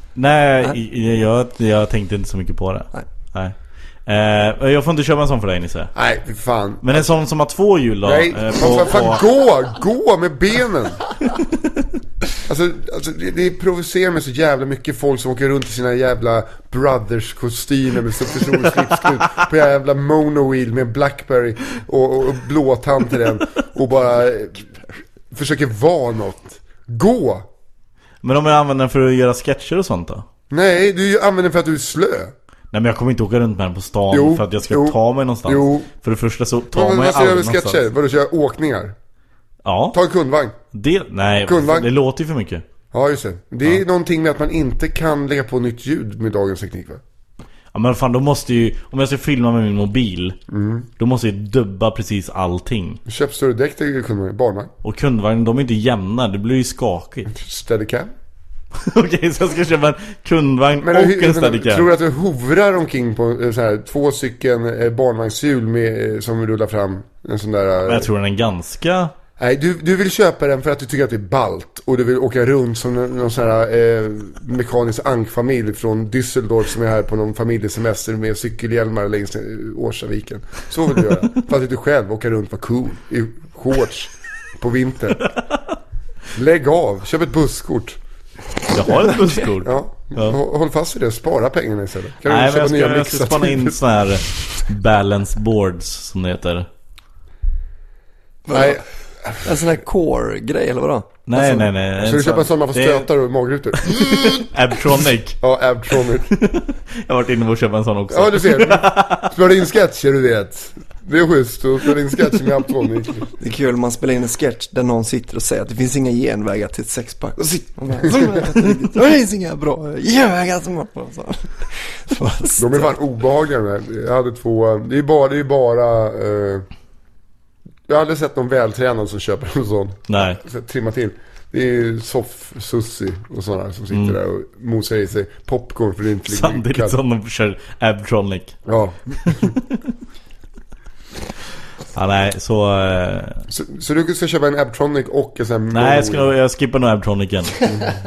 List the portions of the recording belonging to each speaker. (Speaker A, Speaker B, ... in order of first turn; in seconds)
Speaker A: 0.1-3.5, 4.0-5.9, 6.8-9.2, 28.2-30.2, 32.7-37.8, 39.6-40.0, 40.7-42.6, 47.7-50.4, 51.0-53.0, 54.8-57.3, 58.8-61.9, 67.8-69.1, 88.7-90.4, 92.3-96.7, 101.3-103.1, 103.8-105.4, 106.3-109.3, 130.1-130.4, 133.9-134.2, 136.3-138.6, 139.2-139.6, 141.9-143.4, 145.7-147.7
Speaker B: 6.0-7.1, 8.0-11.0, 12.4-24.8, 25.3-27.5, 30.5-32.3, 34.1-35.9, 36.7-39.0, 39.9-40.5, 41.4-41.9, 42.9-47.0, 50.5-50.9, 53.0-54.7, 57.3-58.1, 60.8-68.1, 69.4-85.3, 86.3-88.0, 89.6-93.8, 98.5-99.5, 102.0-104.5, 105.4-106.3, 108.1-113.3, 122.6-126.7, 127.9-137.0, 138.7-139.5, 143.5-146.3
Speaker C: 98.5-98.8, 99.4-101.7, 113.4-123.0